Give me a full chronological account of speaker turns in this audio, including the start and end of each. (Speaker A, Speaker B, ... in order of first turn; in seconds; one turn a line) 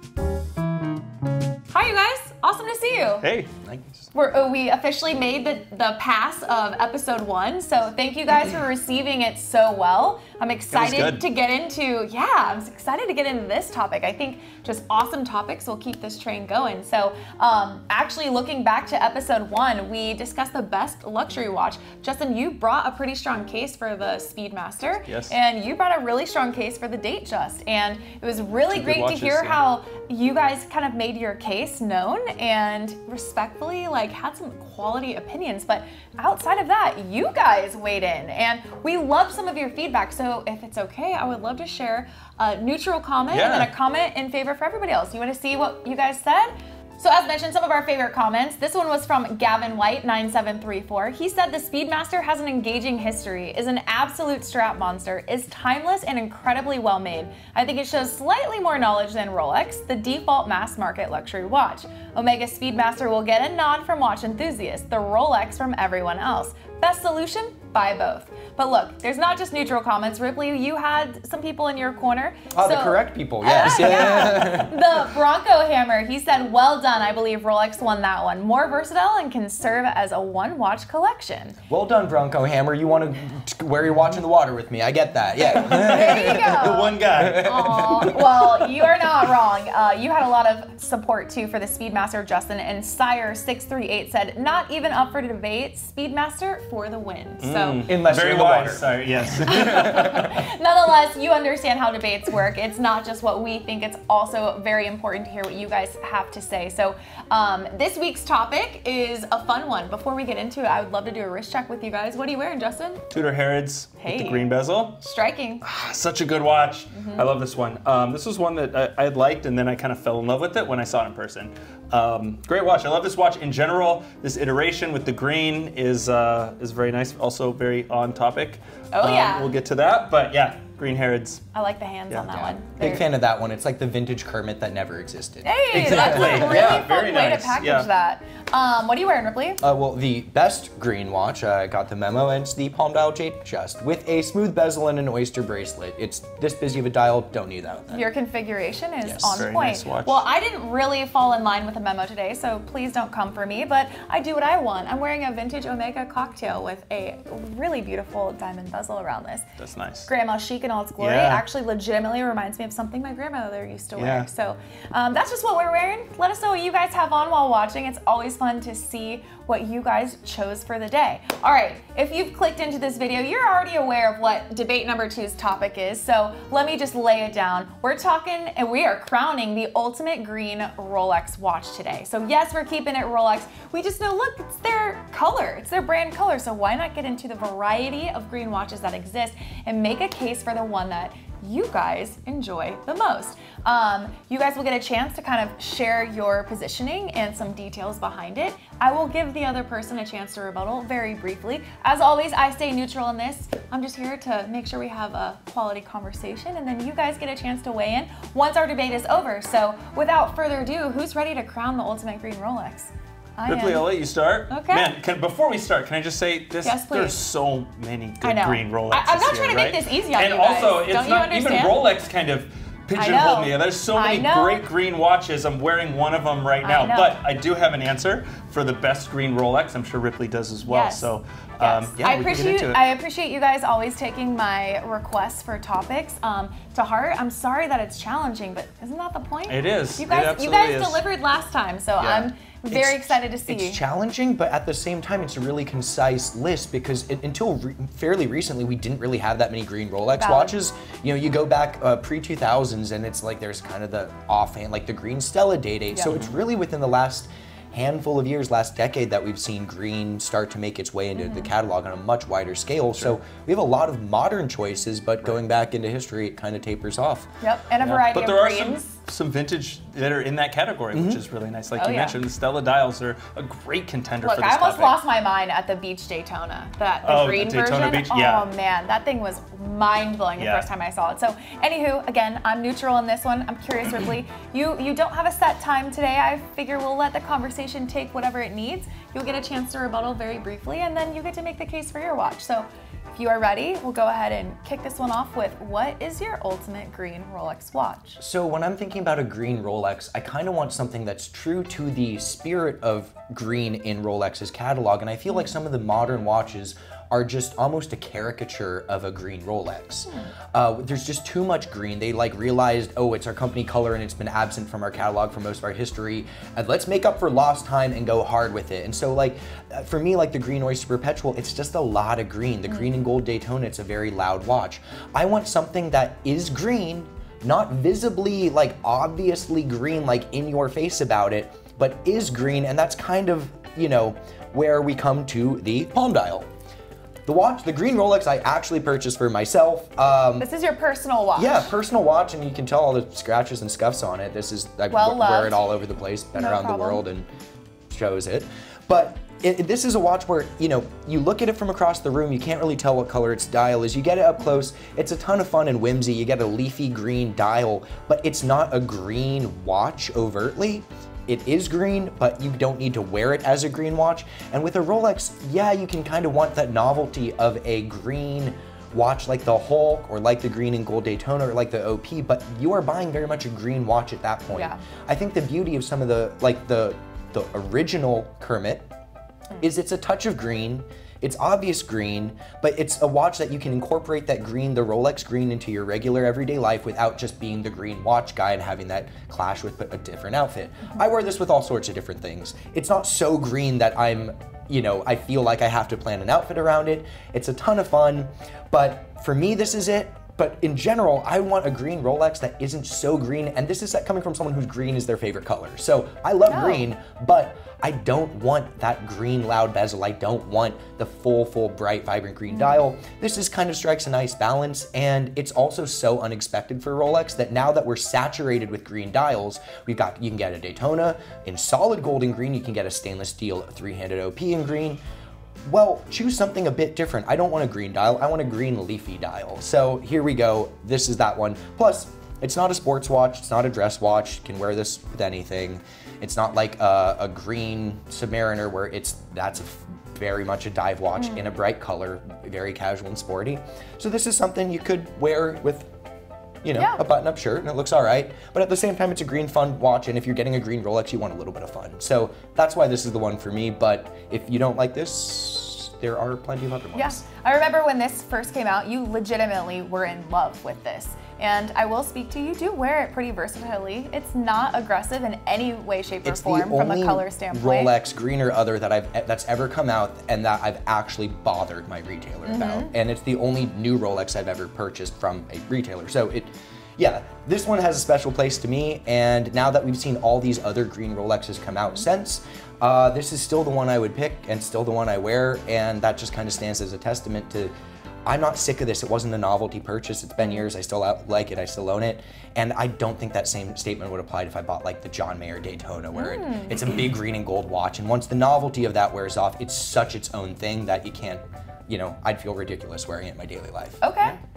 Speaker A: 1.7-3.3
Speaker B: 3.2-3.8
Speaker A: 4.1-81.6
Speaker B: 10.7-11.2
Speaker B: 25.0-25.3
Speaker B: 28.7-29.6
Speaker B: 43.3-43.7
Speaker C: 72.5-74.9
Speaker C: 81.7-88.7
Speaker A: 85.4-97.9
Speaker B: 85.6-87.8
Speaker B: 97.4-100.2
Speaker C: 97.9-100.3
Speaker A: 99.5-113.0
Speaker B: 113.1-115.0
Speaker A: 114.0-115.6
Speaker B: 115.6-131.4
Speaker A: 116.9-117.3
Speaker A: 128.9-129.5
Speaker A: 131.5-133.0
Speaker B: 132.1-132.5
Speaker C: 132.3-136.9
Speaker A: 135.4-139.6
Speaker B: 135.7-137.9
Speaker C: 139.6-148.1
Speaker A: 147.9-159.4
Speaker C: 149.0-149.4
Speaker B: 149.3-150.2
Speaker B: 159.6-160.1
Speaker A: 160.1-213.8
Speaker B: 161.0-161.4
Speaker B: 164.0-164.3
Speaker B: 213.5-232.8
Speaker A: 214.5-214.9
Speaker A: 216.6-217.2
Speaker A: 218.2-221.8
Speaker A: 222.9-224.6
Speaker A: 226.6-227.2
Speaker A: 230.6-231.1
Speaker A: 231.6-243.8
Speaker B: 239.5-241.0
Speaker C: 242.0-267.3
Speaker A: 250.2-250.5
Speaker A: 261.2-261.5
Speaker A: 267.4-268.9
Speaker B: 267.8-275.0
Speaker C: 270.9-271.2
Speaker A: 271.8-272.2
Speaker A: 274.2-298.2
Speaker B: 277.0-278.5
Speaker B: 280.4-280.7
Speaker C: 298.2-336.5
Speaker C: 337.2-340.5
Speaker A: 340.4-341.7
Speaker C: 341.3-347.3
Speaker A: 344.9-345.6
Speaker A: 346.3-347.0
Speaker C: 347.9-378.9
Speaker A: 374.5-374.8
Speaker C: 379.6-425.0
Speaker A: 406.5-406.8
Speaker A: 412.5-412.8
Speaker C: 425.6-445.9
Speaker C: 446.6-457.2
Speaker A: 456.9-467.9
Speaker C: 466.2-487.7
Speaker A: 472.4-472.9
Speaker C: 488.2-504.0
Speaker A: 496.1-496.8
Speaker A: 504.0-504.4